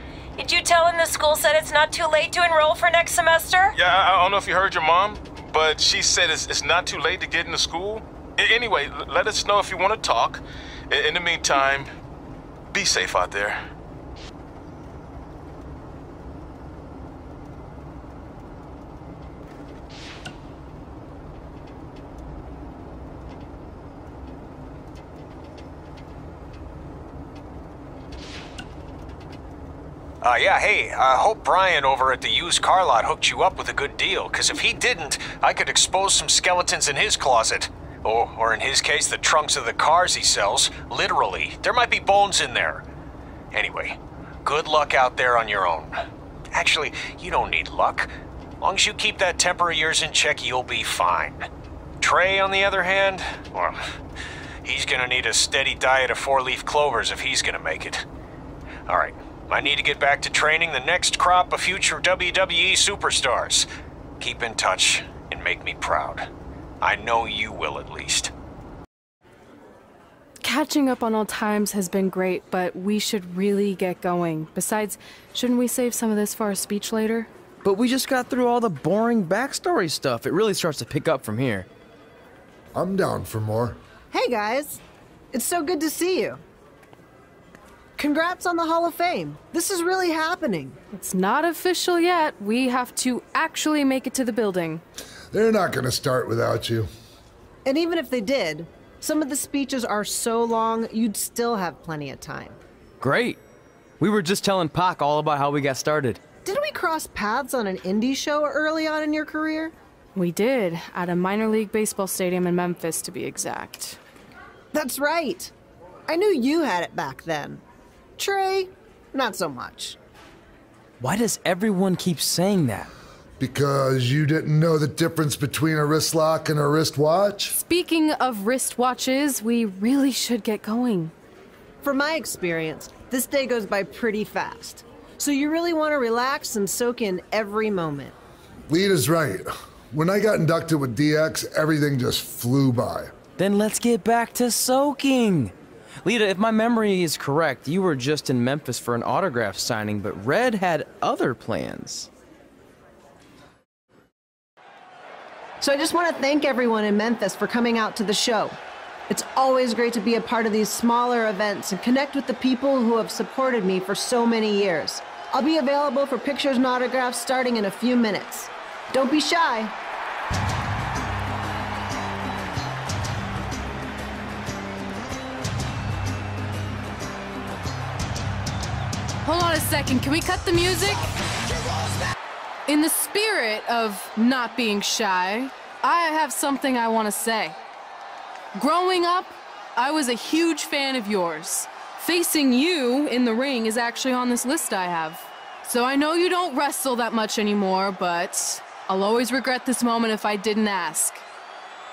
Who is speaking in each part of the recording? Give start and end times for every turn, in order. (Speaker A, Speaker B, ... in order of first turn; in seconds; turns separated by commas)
Speaker A: 0.4-3.7, Speaker B: 3.8-11.9, Speaker B: 12.7-13.6, Speaker C: 30.2-42.9, Speaker C: 43.5-46.0, Speaker C: 46.5-51.5, Speaker C: 52.0-53.8, Speaker C: 54.6-58.0, Speaker C: 58.9-63.7, Speaker C: 64.2-66.3, Speaker C: 66.8-68.3, Speaker D: 70.4-77.3, Speaker E: 77.6-81.7, Speaker F: 82.7-83.8, Speaker G: 84.1-84.8, Speaker G: 85.3-86.4, Speaker G: 88.0-90.8, Speaker D: 90.9-94.8, Speaker F: 95.3-96.9, Speaker G: 97.7-102.6, Speaker E: 103.0-103.4, Speaker E: 104.0-106.2, Speaker G: 106.5-109.7, Speaker D: 110.2-114.0, Speaker G: 114.7-115.5, Speaker G: 116.1-117.6, Speaker G: 118.2-120.0, Speaker E: 121.0-122.9, Speaker F: 123.4-127.6, Speaker D: 127.5-131.1, Speaker G: 131.8-138.2, Speaker F: 138.7-143.1, Speaker E: 143.4-152.1, Speaker G: 155.6-158.6, Speaker G: 159.1-169.7, Speaker D: 179.2-181.1, Speaker D: 182.7-187.6, Speaker D: 188.6-201.2